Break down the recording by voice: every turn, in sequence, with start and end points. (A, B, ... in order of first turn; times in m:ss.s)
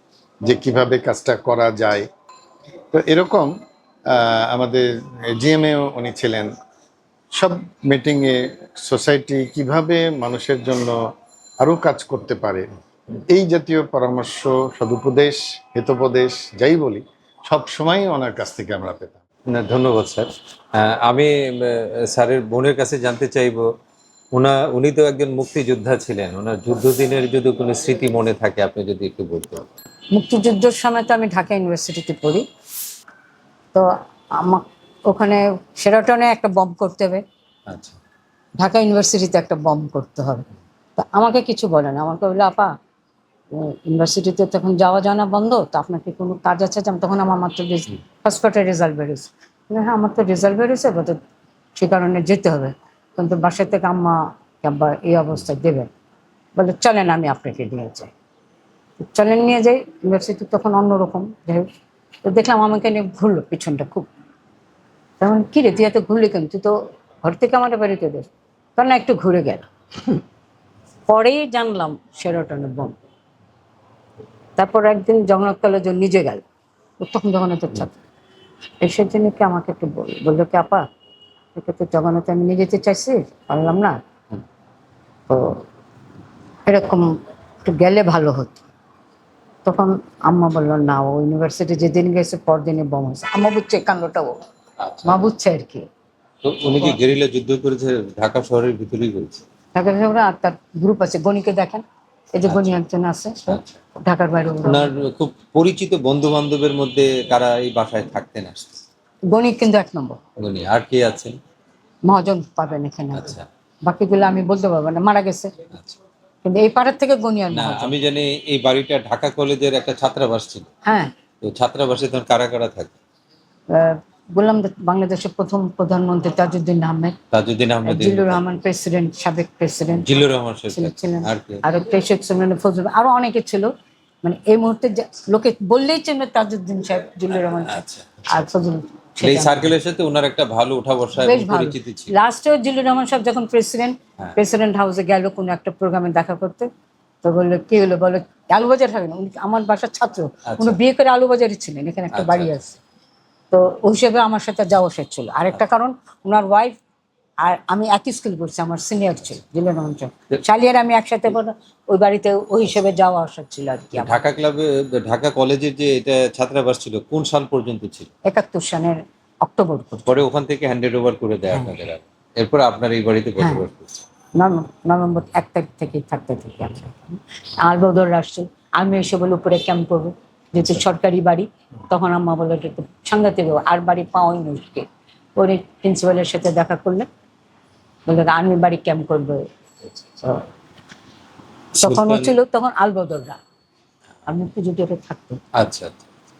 0:00.5-0:02.1 A
0:02.9-0:03.5 A
0:04.1-0:06.5 A
0:07.4-0:11.0 A
0:11.6-0:19.2 A
0:19.5-0:23.6 B
0:24.3-0:29.7 B
0:30.1-0:32.4 C
0:33.7-0:37.2 C
0:37.7-0:38.0 B
0:38.6-0:40.4 C
0:41.0-0:42.7 C
0:43.5-0:51.2 C
0:51.8-0:55.9 C
0:56.6-0:58.1 C
0:59.0-1:01.7 C
1:02.2-1:04.1 C
1:05.2-1:10.2 C
1:11.1-1:13.0 C
1:14.6-1:16.4 C
1:17.0-1:17.9 C
1:18.8-1:20.8 C
1:21.5-1:24.0 C
1:25.3-1:25.6 C
1:26.7-1:27.1 C
1:27.6-1:28.6 C
1:29.6-1:34.4 C
1:34.8-1:35.2 B
1:35.0-1:35.8 C
1:36.4-1:39.4 B
1:39.7-1:41.8 C
1:42.3-1:44.9 C
1:42.4-1:42.8 B
1:43.5-1:43.7 B
1:44.6-1:48.8 B
1:49.3-1:50.2 C
1:50.4-1:51.4 B
1:52.0-1:55.5 C
1:53.1-1:53.4 B
1:56.4-1:57.9 C
1:57.5-2:00.7 B
2:00.8-2:01.1 C
2:01.4-2:03.0 B
2:03.7-2:07.1 C
2:07.3-2:08.4 B
2:07.8-2:10.0 C
2:09.9-2:11.6 B
2:10.7-2:13.7 C
2:14.2-2:19.7 C
2:17.6-2:18.5 B
2:19.2-2:22.1 B
2:21.2-2:26.7 C
2:27.2-2:32.8 C
2:30.5-2:30.8 B
2:32.1-2:32.5 B
2:33.5-2:36.8 C
2:37.4-2:44.1 C
2:44.0-2:48.1 B
2:48.3-2:50.1 C
2:50.1-2:54.0 B
2:54.4-3:07.1 C
3:08.0-3:09.4 C
3:11.7-3:12.4 B
3:11.8-3:13.4 C
3:14.3-3:15.4 C
3:15.6-3:16.0 B